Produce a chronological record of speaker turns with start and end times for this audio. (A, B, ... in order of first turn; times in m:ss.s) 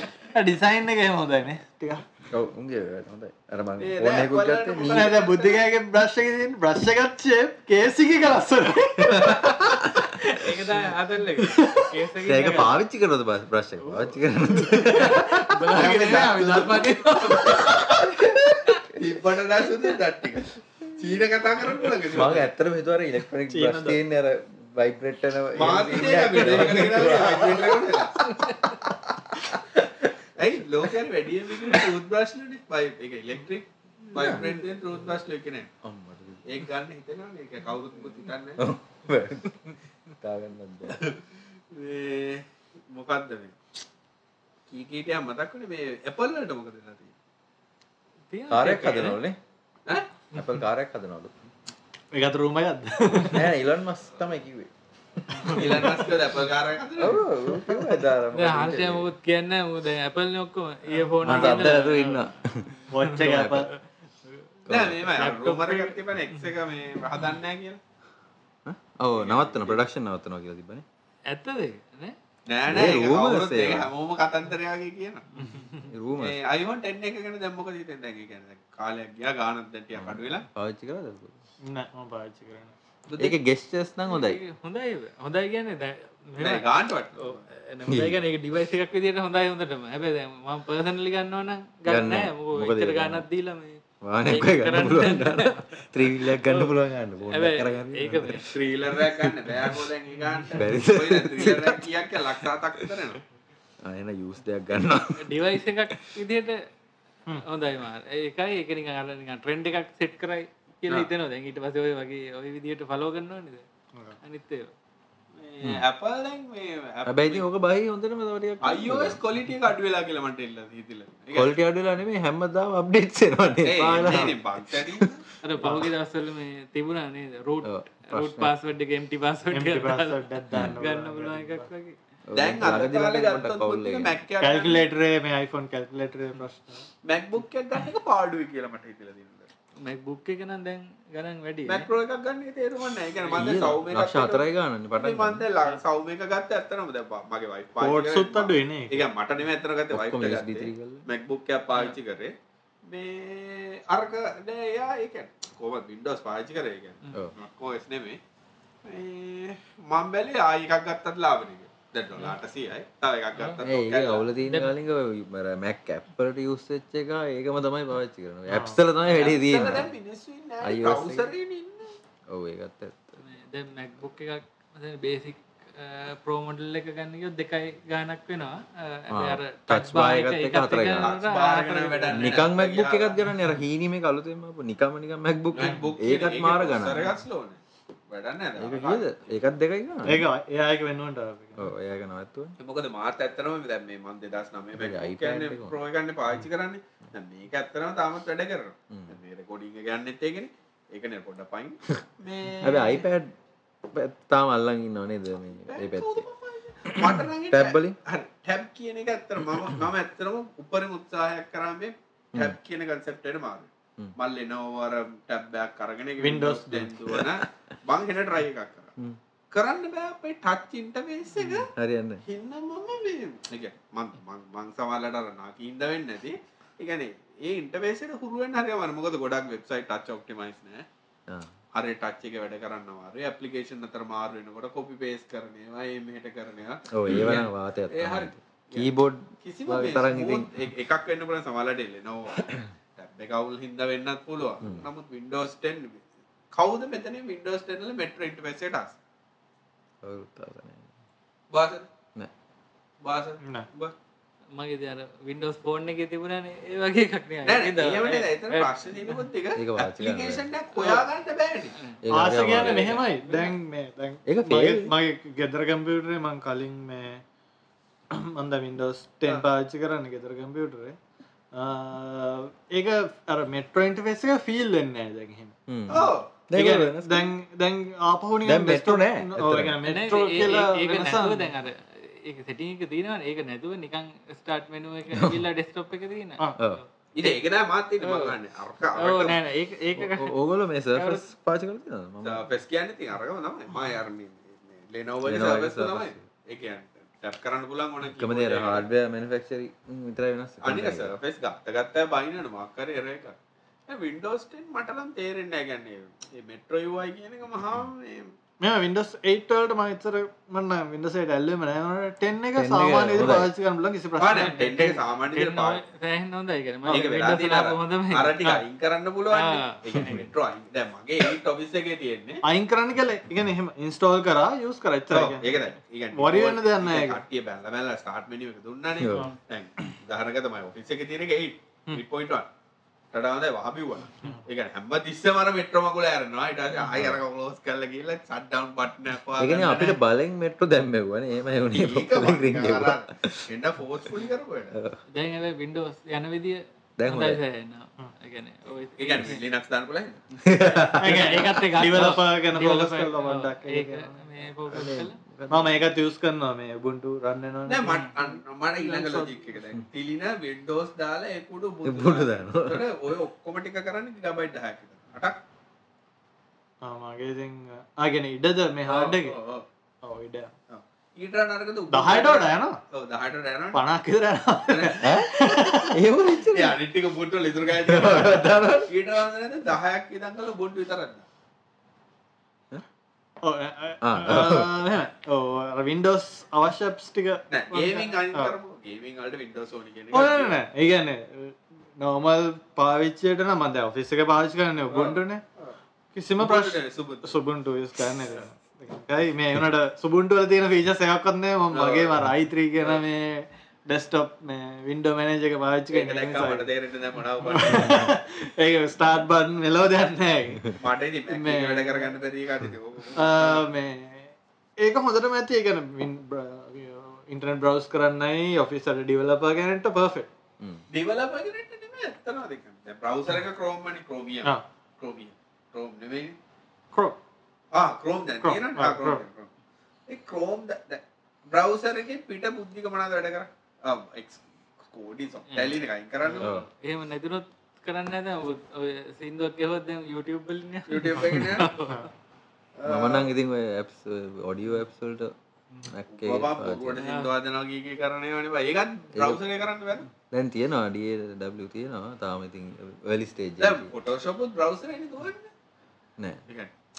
0:00.3-0:02.0 A
0:02.3-0:05.1 B
0:03.8-0:05.7 C
0:04.8-0:09.6 A
0:09.1-0:10.0 B
0:10.2-0:12.8 D
0:11.4-0:11.9 A
0:12.2-0:15.9 B
0:14.7-0:18.8 D
0:15.7-0:22.5 C
0:22.1-0:30.2 B
0:23.5-0:24.0 A
0:25.6-0:28.2 C
0:26.6-0:26.8 A
0:28.3-0:28.8 D
0:29.8-0:35.7 C
0:34.2-0:34.5 B
0:34.2-0:34.6 D
0:35.8-0:36.6 B
0:36.4-0:38.6 C
0:38.6-0:39.7 B
0:40.2-0:41.1 B
0:40.9-0:41.2 C
0:41.7-0:43.6 C
0:44.7-0:47.1 C
0:48.3-0:49.2 D
0:48.5-0:49.4 B
0:50.4-0:51.3 B
0:52.1-0:53.5 A
0:53.2-0:54.7 B
0:55.3-0:56.0 A
0:55.3-0:55.6 D
0:55.5-0:57.3 C
0:57.0-0:59.1 B
0:58.3-1:02.3 D
1:01.0-1:01.8 A
1:01.2-1:03.7 B
1:02.9-1:03.7 A
1:03.0-1:03.5 D
1:04.7-1:05.2 B
1:04.7-1:07.8 C
1:05.2-1:06.0 D
1:08.6-1:10.8 B
1:09.1-1:09.8 C
1:11.3-1:12.2 D
1:12.5-1:15.3 C
1:12.7-1:13.9 B
1:15.4-1:15.8 D
1:15.8-1:16.4 B
1:16.2-1:20.4 C
1:19.9-1:21.4 B
1:21.7-1:22.7 A
1:23.1-1:23.4 C
1:23.2-1:24.4 B
1:24.1-1:36.7 D
1:26.4-1:27.4 C
1:27.9-1:28.2 B
1:31.9-1:33.3 B
1:34.0-1:39.8 B
1:37.3-1:38.5 D
1:38.4-1:43.2 C
1:40.5-1:43.0 B
1:43.8-1:45.3 B
1:45.1-1:46.6 D
1:47.4-1:53.6 D
1:54.2-1:54.7 D
1:55.4-1:57.5 C
1:57.0-1:59.2 B
1:58.6-2:01.5 C
2:01.3-2:05.9 B
2:03.6-2:05.2 C
2:04.0-2:04.3 A
2:05.4-2:12.0 D
2:07.6-2:08.5 B
2:09.5-2:11.7 A
2:10.5-2:10.8 B
2:12.3-2:14.2 B
2:12.3-2:14.9 C
2:14.4-2:16.9 A
2:17.0-2:19.5 C
2:19.8-2:21.9 D
2:21.7-2:24.5 C
2:23.3-2:25.5 B
2:25.0-2:32.4 C
2:27.8-2:29.1 A
2:29.9-2:31.0 B
2:32.9-2:38.2 C
2:38.8-2:44.2 C
2:43.4-2:43.6 D
2:43.6-2:49.9 B
2:44.4-2:44.7 D
2:48.5-2:48.8 A
2:49.1-2:52.0 C
2:50.6-2:51.3 B
2:52.3-2:53.2 B
2:53.2-3:02.4 D
2:59.1-3:01.2 B
3:01.0-3:03.2 C
3:02.1-3:07.1 B
3:05.5-3:09.3 C
3:08.6-3:10.3 B
3:10.0-3:11.7 A
3:11.6-3:12.6 B
3:12.6-3:23.1 C
3:14.8-3:15.8 B
3:18.9-3:19.2 B
3:22.6-3:23.3 B
3:23.9-3:26.3 B
3:25.4-3:38.9 C
3:26.8-3:28.0 B
3:29.5-3:29.7 B
3:36.2-3:36.9 A
3:37.1-3:37.4 B
3:39.5-3:41.7 C
3:41.4-3:42.2 B
3:42.3-3:50.8 C
3:51.8-3:58.9 C
3:56.9-4:00.5 B
3:59.4-4:09.0 C
4:04.6-4:04.9 B
4:10.0-4:10.9 B
4:11.5-4:11.9 C
4:13.0-4:13.9 C
4:14.6-4:19.2 D
4:17.4-4:21.8 C
4:19.6-4:20.5 B
4:20.8-4:21.0 D
4:21.8-4:23.6 D
4:22.0-4:23.0 B
4:22.1-4:27.2 A
4:24.3-4:24.9 B
4:28.1-4:31.0 A
4:31.5-4:35.6 A
4:35.7-4:37.3 B
4:35.9-4:36.3 C
4:36.5-4:41.5 A
4:38.4-4:39.8 B
4:39.8-4:47.4 D
4:45.1-4:45.4 B
4:47.2-4:49.4 C
4:48.0-4:48.3 D
4:49.0-4:50.4 D
4:50.0-4:52.4 B
4:50.9-4:51.2 D
4:52.2-4:58.9 C
4:55.2-4:56.3 B
4:58.2-5:01.1 B
5:00.6-5:03.4 C
5:03.9-5:08.3 C
5:08.6-5:14.9 A
5:12.5-5:13.5 B
5:14.2-5:15.8 C
5:14.3-5:18.6 D
5:16.9-5:22.4 C
5:19.3-5:20.2 D
5:20.0-5:20.3 B
5:22.4-5:25.6 A
5:25.1-5:32.5 C
5:26.1-5:27.2 A
5:29.0-5:29.3 B
5:33.1-5:40.0 C
5:36.9-5:37.2 B
5:39.4-5:43.5 B
5:41.7-5:44.8 C
5:44.7-5:45.0 B
5:45.1-5:49.4 D
5:47.0-5:47.4 B
5:49.0-5:50.2 C
5:50.4-5:51.4 B
5:50.5-5:55.2 D
5:51.0-5:54.3 A
5:54.7-5:55.9 B
5:55.5-5:59.5 A
5:57.7-6:05.4 C
6:01.8-6:02.9 B
6:06.8-6:09.4 A
6:08.8-6:09.6 C
6:10.0-6:10.5 A
6:10.7-6:13.8 C
6:11.9-6:12.8 A
6:13.7-6:16.0 A
6:14.7-6:15.2 C
6:15.0-6:16.8 B
6:16.5-6:21.3 C
6:17.8-6:18.9 B
6:23.4-6:28.5 A
6:24.0-6:24.9 B
6:27.5-6:30.6 C
6:30.1-6:35.4 A
6:34.9-6:35.8 C
6:36.1-6:46.7 A
6:36.4-6:37.4 C
6:38.2-6:38.4 C
6:41.7-6:42.2 C
6:45.9-6:48.1 C
6:47.4-6:52.2 A
6:47.8-6:48.1 B
6:50.8-6:53.7 C
6:53.2-7:00.3 A
7:00.6-7:00.8 B
7:00.9-7:06.4 C
7:06.9-7:07.2 A
7:07.7-7:09.5 C
7:08.4-7:09.2 A
7:10.1-7:16.5 C
7:16.2-7:22.1 D
7:16.4-7:16.7 B
7:20.9-7:21.8 C
7:21.3-7:21.6 B
7:22.8-7:23.3 C
7:22.9-7:27.0 B
7:26.1-7:30.1 C
7:27.0-7:27.3 D
7:29.1-7:29.4 B
7:30.3-7:33.9 B
7:33.6-7:35.5 C
7:36.2-7:36.4 B